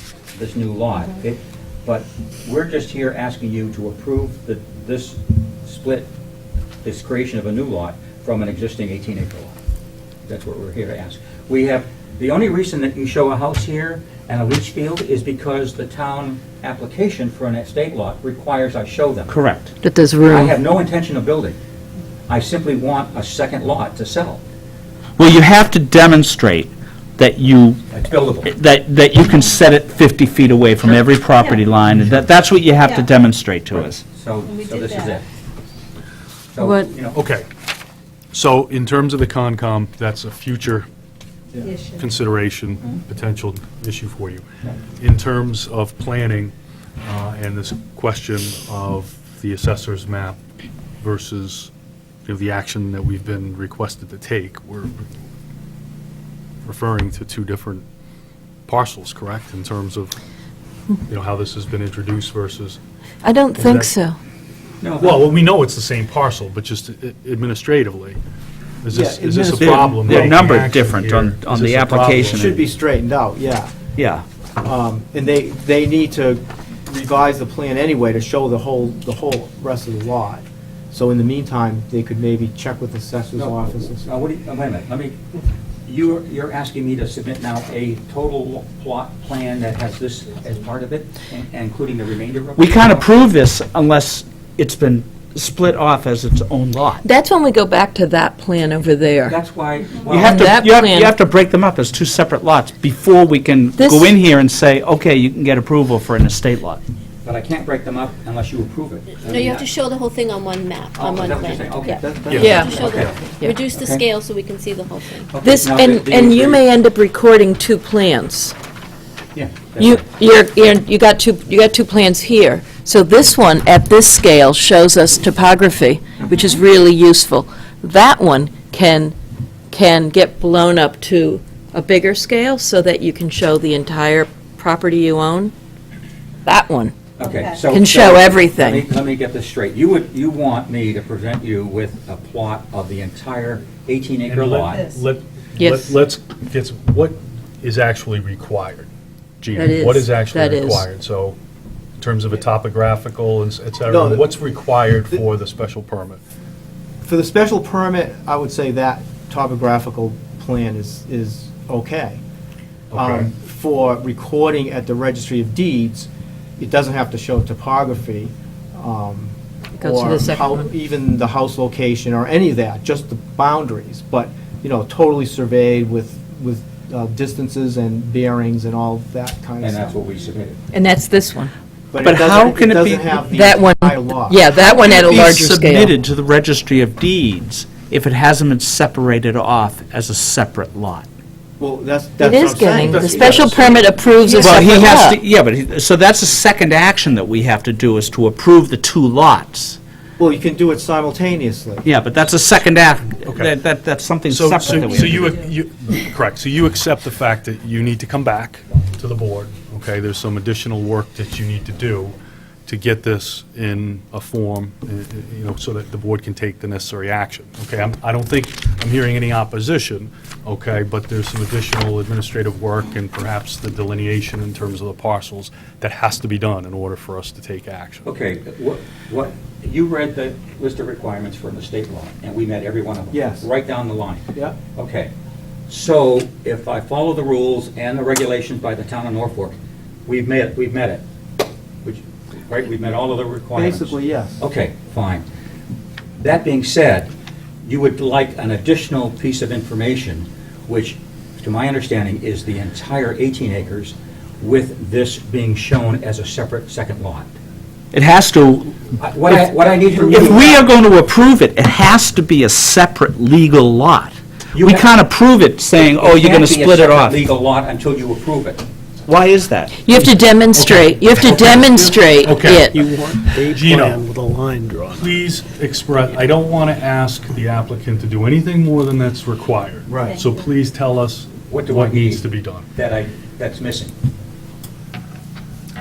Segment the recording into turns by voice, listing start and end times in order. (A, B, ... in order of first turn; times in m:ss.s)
0:00.3-0:06.1 A
0:06.8-0:09.5 A
0:10.3-0:19.4 A
0:19.3-0:19.7 B
0:19.8-0:20.5 C
0:20.2-0:21.6 A
0:22.3-0:24.4 A
0:25.2-0:27.8 B
0:27.9-0:28.5 A
0:28.4-0:34.0 B
0:34.1-0:35.2 A
0:36.5-0:37.2 A
0:36.6-0:36.9 C
0:37.0-0:37.5 D
0:38.3-0:40.8 D
0:41.8-0:44.4 D
0:45.0-0:50.4 D
0:51.0-0:51.7 D
0:52.2-0:55.0 D
0:56.6-0:57.8 D
0:58.7-1:00.2 D
1:01.1-1:02.8 D
1:03.2-1:04.2 C
1:03.5-1:03.9 D
1:04.8-1:05.2 A
1:05.0-1:08.2 D
1:08.8-1:12.6 D
1:08.9-1:10.2 E
1:09.6-1:12.6 B
1:12.2-1:13.7 E
1:14.0-1:14.2 B
1:14.6-1:24.1 E
1:23.4-1:25.2 A
1:25.8-1:33.2 A
1:32.6-1:37.0 B
1:37.0-1:39.4 C
1:39.2-1:40.5 A
1:40.1-1:46.8 B
1:40.2-1:41.1 C
1:43.8-1:44.1 C
1:47.2-1:49.7 A
1:49.3-1:51.7 F
1:51.0-1:52.0 A
1:52.0-1:53.2 E
1:52.3-1:53.2 D
1:52.3-1:53.6 C
1:52.5-1:55.3 F
1:53.7-1:54.0 A
1:55.3-1:56.6 A
1:55.4-1:58.5 C
1:59.3-2:00.0 A
1:59.8-2:09.1 C
2:09.7-2:15.5 C
2:16.4-2:17.0 C
2:17.2-2:24.9 A
2:17.7-2:18.8 C
2:24.2-2:28.9 D
2:25.6-2:26.0 C
2:29.4-2:31.4 D
2:29.5-2:30.9 C
2:32.0-2:36.2 D
2:33.9-2:34.4 E
2:37.0-2:42.2 E
2:42.9-2:43.3 D
2:42.9-3:00.0 E
2:49.8-2:50.6 C
2:59.6-3:00.6 A
3:00.7-3:01.5 C
3:01.9-3:04.4 E
3:02.0-3:03.2 B
3:03.3-3:05.9 C
3:04.6-3:11.0 B
3:11.6-3:13.7 E
3:12.2-3:15.2 C
3:12.9-3:14.4 D
3:14.2-3:19.8 B
3:20.2-3:21.8 E
3:21.8-3:25.4 B
3:23.2-3:23.5 D
3:24.2-3:48.0 D
3:48.0-3:55.1 A
3:53.1-3:53.5 E
3:55.7-4:01.0 A
4:01.8-4:05.2 A
4:03.5-4:04.4 E
4:06.2-4:07.1 A
4:07.6-4:17.3 A
4:17.9-4:19.4 B
4:19.0-4:20.7 A
4:20.0-4:27.2 B
4:24.5-4:24.9 A
4:25.7-4:28.6 A
4:29.0-4:29.8 B
4:29.8-4:32.8 C
4:30.5-4:32.7 D
4:31.5-4:31.8 G
4:32.7-4:35.0 G
4:33.3-4:34.0 D
4:34.9-4:42.7 D
4:39.9-4:40.2 E
4:41.5-4:43.9 A